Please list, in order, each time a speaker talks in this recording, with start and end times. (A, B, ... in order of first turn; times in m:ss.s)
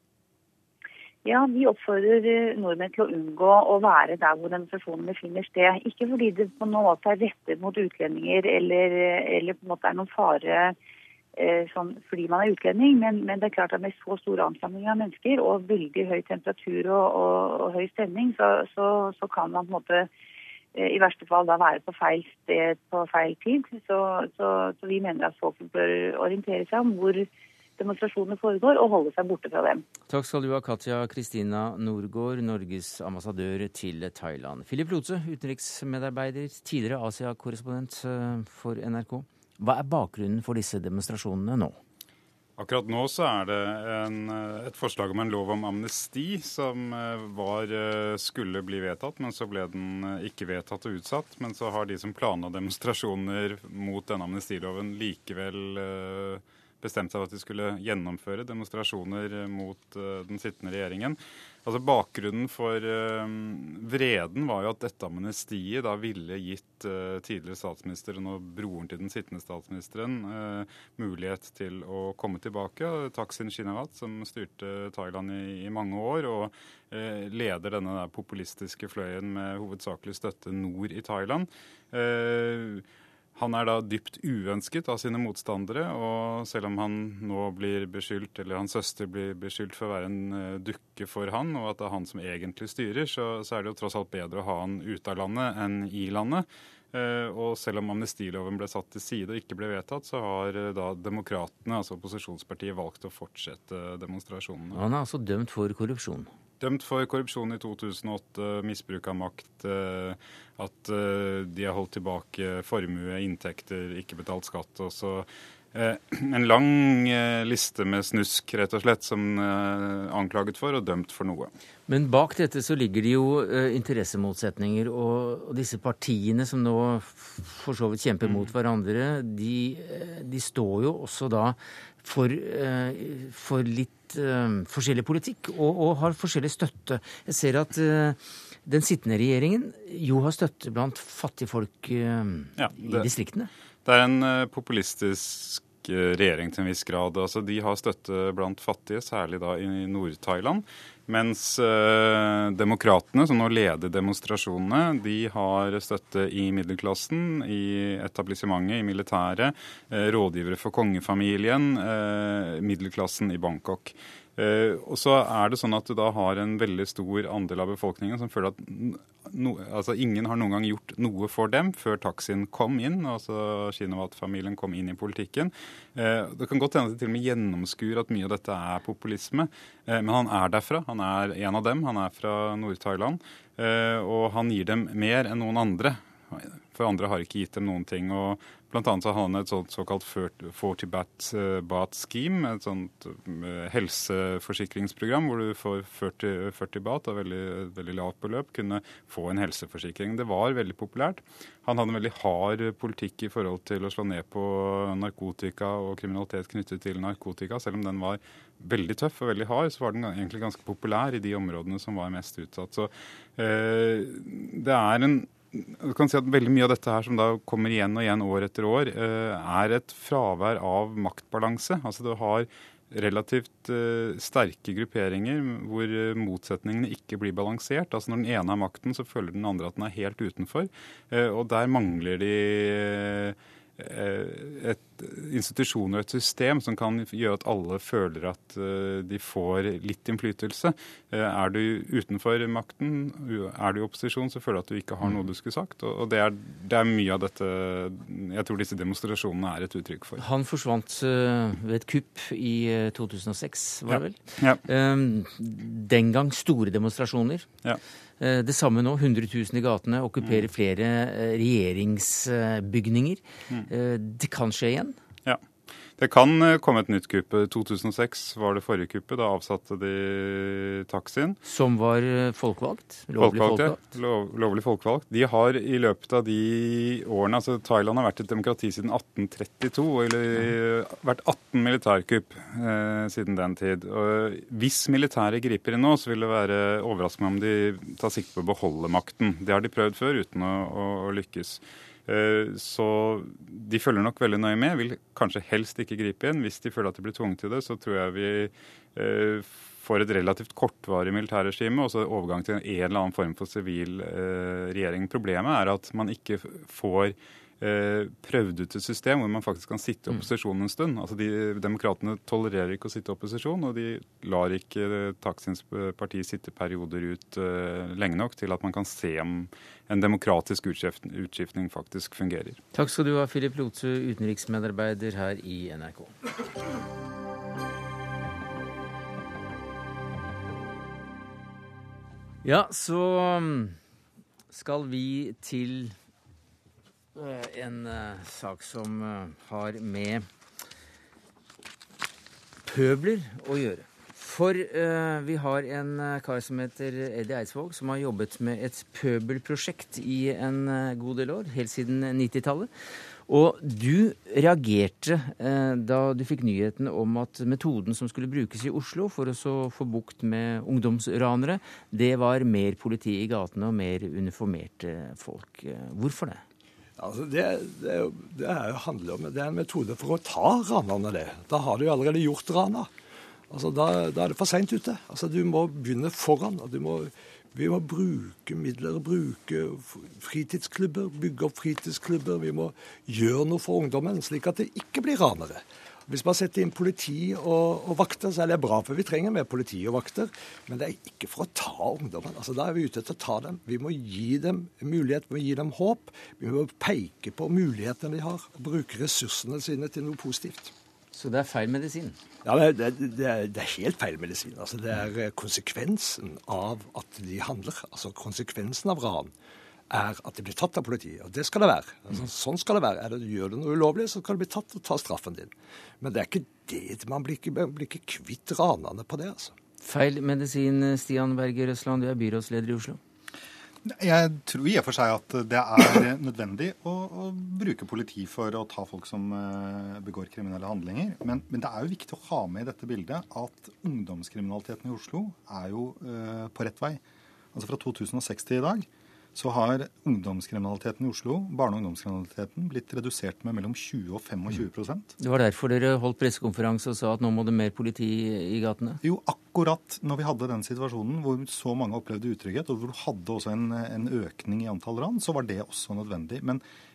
0:01.2-0:10.7 A
0:11.4-0:20.1 A
0:20.8-0:27.3 A
0:27.8-0:29.8 A
0:30.1-0:41.8 B
0:42.6-1:22.8 C
1:23.4-1:44.8 C
1:44.7-1:46.3 B
1:46.6-2:01.5 C
2:01.9-2:23.5 B
2:08.2-2:08.5 C
2:22.6-2:23.1 C
2:23.8-4:10.2 C
4:10.2-4:17.5 B
4:13.9-4:14.6 C
4:18.2-4:25.0 B
4:26.0-4:31.4 C
4:31.4-4:33.8 B
4:33.2-5:22.6 C
5:22.7-5:26.2 B
5:32.4-5:33.8 B
5:34.5-5:36.0 B
5:37.2-5:40.3 B
5:42.6-5:52.7 B
5:53.3-6:06.4 B
6:07.0-6:12.9 D
6:13.5-6:40.7 D
6:41.1-6:42.2 B
6:42.4-6:49.3 D
6:49.9-6:59.5 D
6:59.8-7:03.0 B
7:03.9-7:17.0 E
7:17.5-7:25.1 E
7:25.2-7:29.0 B
7:29.0-7:36.6 E